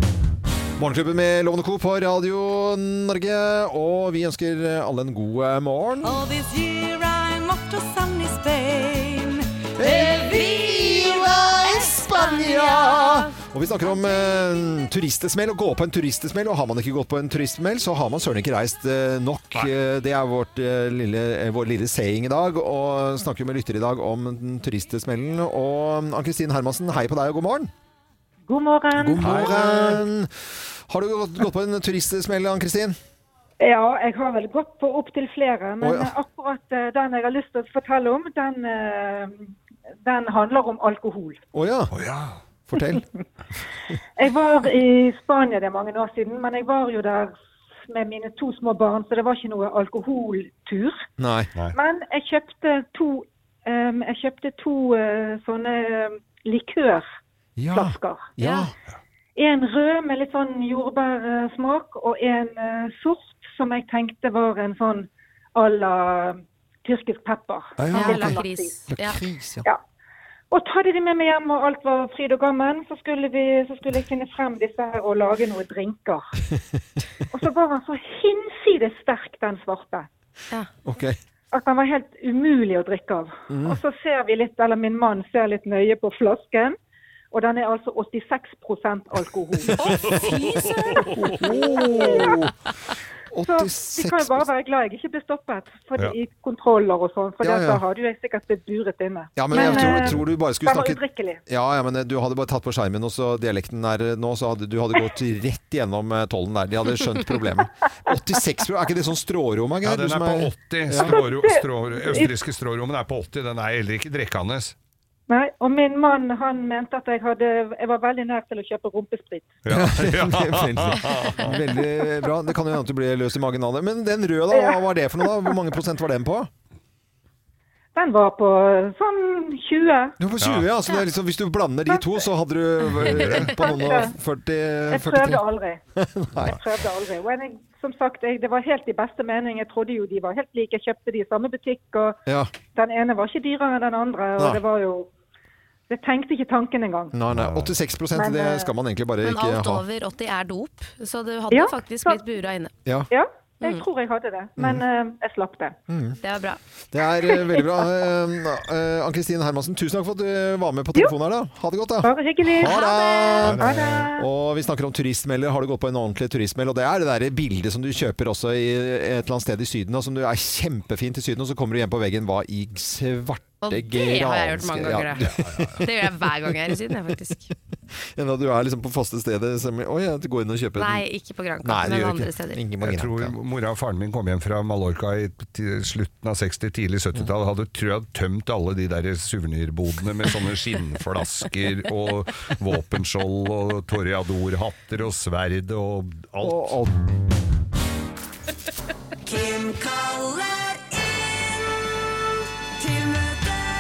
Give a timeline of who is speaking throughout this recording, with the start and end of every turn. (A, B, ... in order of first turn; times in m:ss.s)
0:00.8-0:06.2 A
0:06.0-0:13.0 B
0:09.8-0:27.7 A
0:28.5-0:29.6 C
0:29.0-0:30.3 A
0:29.2-0:30.0 D
0:30.9-0:33.0 A
0:33.6-0:39.5 C
0:35.8-0:36.1 A
0:40.0-0:41.4 C
0:41.5-0:41.9 A
0:41.9-0:42.4 D
0:42.7-0:43.0 A
0:44.2-0:47.4 C
0:47.9-0:51.1 C
0:51.2-0:51.5 A
0:51.7-0:57.1 C
0:57.6-0:58.7 A
0:57.7-0:58.3 C
0:58.4-0:58.7 E
0:59.4-1:08.8 C
1:07.8-1:09.7 A
1:07.9-1:09.2 E
1:10.5-1:16.2 C
1:17.3-1:20.1 C
1:20.8-1:21.2 A
1:21.5-1:26.8 C
1:23.5-1:23.8 A
1:27.3-1:32.4 C
1:29.8-1:30.2 A
1:30.2-1:30.7 E
1:31.2-1:32.5 A
1:33.3-1:34.5 A
1:33.4-1:41.4 C
1:37.4-1:37.8 A
1:39.4-1:51.2 A
1:39.6-1:40.2 D
1:49.8-1:54.8 D
1:50.9-1:52.3 C
1:55.3-1:59.6 C
1:59.6-2:01.6 D
1:59.7-2:06.5 A
2:04.5-2:05.6 C
2:08.0-2:10.2 C
2:10.2-2:15.4 A
2:10.4-2:10.7 D
2:11.9-2:12.2 C
2:13.0-2:13.5 D
2:13.4-2:14.1 C
2:14.9-2:15.8 C
2:16.0-2:16.6 A
2:16.4-2:25.1 C
2:22.3-2:22.5 A
2:25.9-2:27.1 C
2:27.1-2:29.8 A
2:27.3-2:27.8 D
2:28.1-2:28.7 C
2:29.2-2:32.7 E
2:31.5-2:32.2 C
2:33.1-2:35.8 C
2:34.6-2:34.8 A
2:35.9-2:36.2 A
2:36.2-2:36.6 E
2:36.9-2:56.8 A
2:42.0-2:44.3 C
2:42.7-2:43.4 E
2:43.4-2:44.0 D
2:53.6-2:57.5 E
2:55.2-2:55.8 D
2:58.2-3:01.0 A
3:00.8-3:02.6 E
3:01.6-3:03.4 A
3:02.8-3:16.8 D
3:16.4-3:17.0 A
3:19.4-3:20.1 B